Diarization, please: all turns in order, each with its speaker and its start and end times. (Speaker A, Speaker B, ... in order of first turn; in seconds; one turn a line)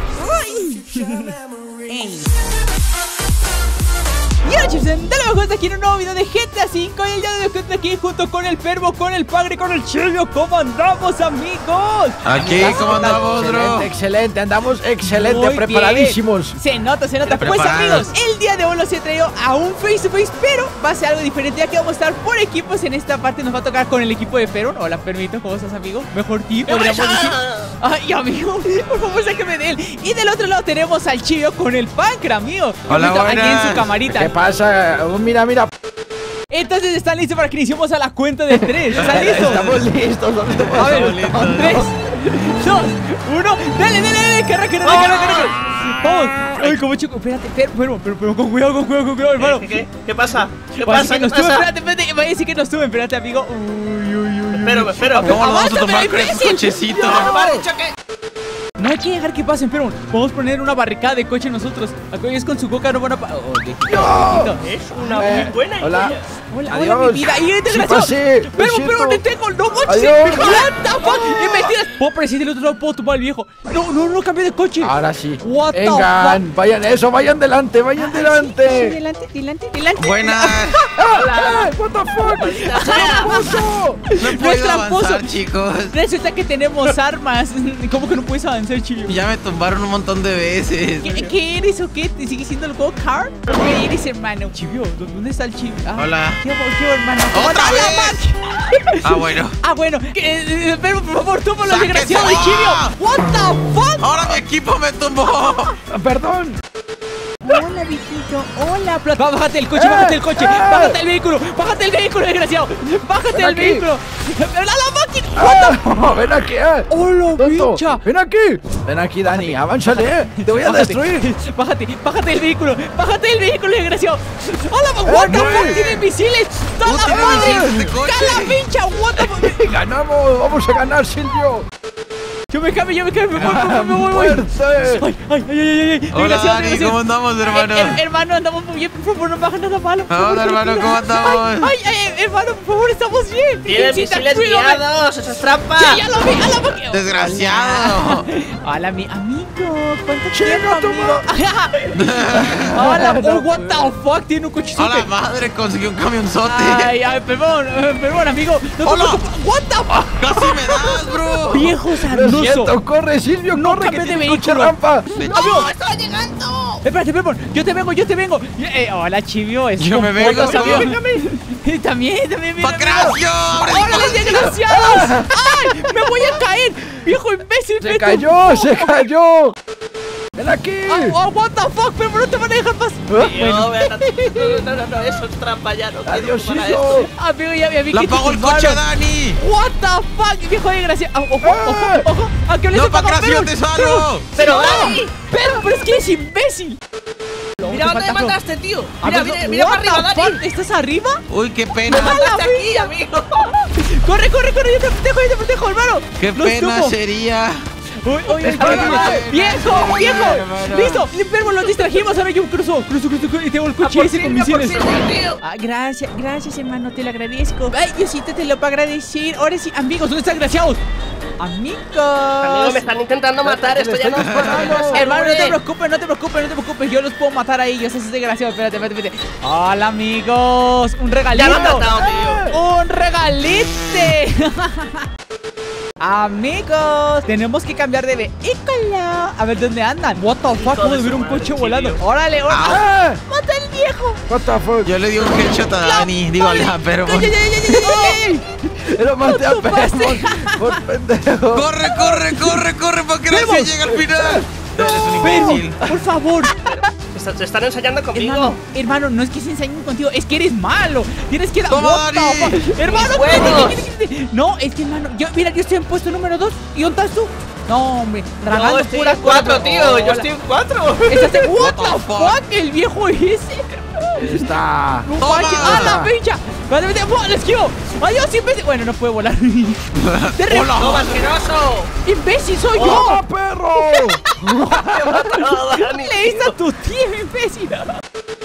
Speaker A: 0.1-1.3
Speaker A: 1.9-2.3
Speaker A: 4.4-13.2
Speaker B: 12.2-13.9
Speaker C: 12.3-16.6
Speaker A: 15.0-34.3
Speaker B: 17.2-18.1
Speaker D: 26.7-27.7
Speaker B: 32.9-33.9
Speaker C: 34.1-35.7
Speaker A: 36.5-39.7
Speaker C: 38.5-41.7
Speaker B: 39.0-39.8
Speaker B: 40.5-41.9
Speaker A: 40.8-49.6
Speaker D: 44.8-46.1
Speaker D: 49.4-51.7
Speaker A: 50.8-57.4
Speaker D: 54.5-55.4
Speaker B: 55.2-57.4
Speaker D: 56.9-57.9
Speaker A: 58.8-65.5
Speaker C: 63.9-64.6
Speaker D: 64.6-66.2
Speaker C: 65.1-66.2
Speaker A: 66.5-76.4
Speaker C: 66.7-69.2
Speaker C: 69.8-71.8
Speaker C: 74.8-79.0
Speaker A: 78.0-80.9
Speaker B: 80.0-80.8
Speaker C: 80.9-84.0
Speaker D: 81.1-81.7
Speaker D: 82.2-83.6
Speaker A: 82.5-85.3
Speaker B: 84.2-86.0
Speaker A: 85.9-89.2
Speaker B: 89.1-91.1
Speaker A: 91.0-104.4
Speaker D: 91.1-91.3
Speaker B: 96.0-96.4
Speaker B: 97.3-98.2
Speaker B: 99.0-99.6
Speaker B: 101.6-102.9
Speaker B: 104.0-105.7
Speaker C: 105.9-106.6
Speaker A: 107.4-115.9
Speaker C: 109.7-111.0
Speaker C: 113.3-113.9
Speaker C: 115.3-121.3
Speaker A: 116.9-118.0
Speaker A: 119.3-129.6
Speaker C: 125.0-125.8
Speaker B: 125.3-126.0
Speaker B: 126.8-128.6
Speaker C: 127.0-127.8
Speaker C: 129.2-131.6
Speaker A: 132.5-144.8
Speaker C: 133.3-135.0
Speaker B: 136.1-138.0
Speaker B: 140.1-141.7
Speaker D: 143.7-146.0
Speaker A: 145.8-151.9
Speaker B: 146.2-148.2
Speaker C: 150.3-151.3
Speaker B: 151.9-152.8
Speaker C: 152.3-153.8
Speaker A: 152.7-155.1
Speaker B: 154.8-156.9
Speaker A: 156.4-160.6
Speaker B: 158.8-159.2
Speaker B: 160.2-161.8
Speaker A: 161.5-162.8
Speaker C: 162.1-165.1
Speaker A: 163.5-164.8
Speaker B: 165.1-165.7
Speaker D: 165.2-166.8
Speaker A: 165.3-165.7
Speaker A: 166.8-179.1
Speaker B: 169.8-170.9
Speaker D: 170.2-171.2
Speaker B: 172.6-174.6
Speaker C: 174.6-175.4
Speaker C: 177.8-179.6
Speaker C: 180.4-181.2
Speaker A: 180.8-184.6
Speaker D: 183.2-187.1
Speaker C: 186.1-187.1
Speaker A: 187.0-188.8
Speaker B: 187.9-189.4
Speaker A: 189.3-196.8
Speaker C: 191.4-192.1
Speaker B: 192.7-194.3
Speaker D: 194.3-195.8
Speaker A: 197.6-198.3
Speaker D: 197.6-200.4
Speaker A: 199.0-201.2
Speaker B: 201.3-202.2
Speaker A: 201.8-206.9
Speaker D: 201.9-203.5
Speaker B: 206.2-207.7
Speaker A: 208.0-220.8
Speaker D: 208.4-209.2
Speaker B: 208.5-211.1
Speaker D: 211.5-212.0
Speaker D: 213.8-215.4
Speaker A: 221.4-222.9
Speaker D: 222.4-225.6
Speaker C: 223.4-225.1
Speaker B: 224.2-224.9
Speaker A: 224.9-232.0
Speaker D: 231.3-232.4
Speaker C: 231.4-232.6
Speaker A: 232.5-235.1
Speaker A: 236.0-244.2
Speaker D: 240.5-242.0
Speaker B: 242.5-242.8
Speaker C: 242.6-243.2
Speaker C: 244.3-244.9
Speaker B: 244.8-247.3
Speaker A: 245.7-248.4
Speaker C: 247.7-251.7
Speaker A: 249.2-250.8
Speaker B: 251.5-255.8
Speaker A: 251.8-252.6
Speaker A: 253.3-253.7
Speaker C: 253.3-254.4
Speaker A: 255.2-256.6
Speaker D: 256.5-258.6
Speaker A: 258.1-270.3
Speaker B: 261.7-262.6
Speaker D: 262.8-263.8
Speaker D: 268.5-271.5
Speaker A: 271.1-274.5
Speaker B: 271.6-272.4
Speaker C: 274.2-276.1
Speaker A: 275.0-280.8
Speaker B: 275.2-276.0
Speaker B: 279.9-281.4
Speaker D: 280.7-281.9
Speaker A: 282.0-283.2
Speaker D: 282.7-283.1
Speaker C: 282.8-285.3
Speaker A: 283.8-284.1
Speaker D: 284.8-286.5
Speaker A: 285.1-287.9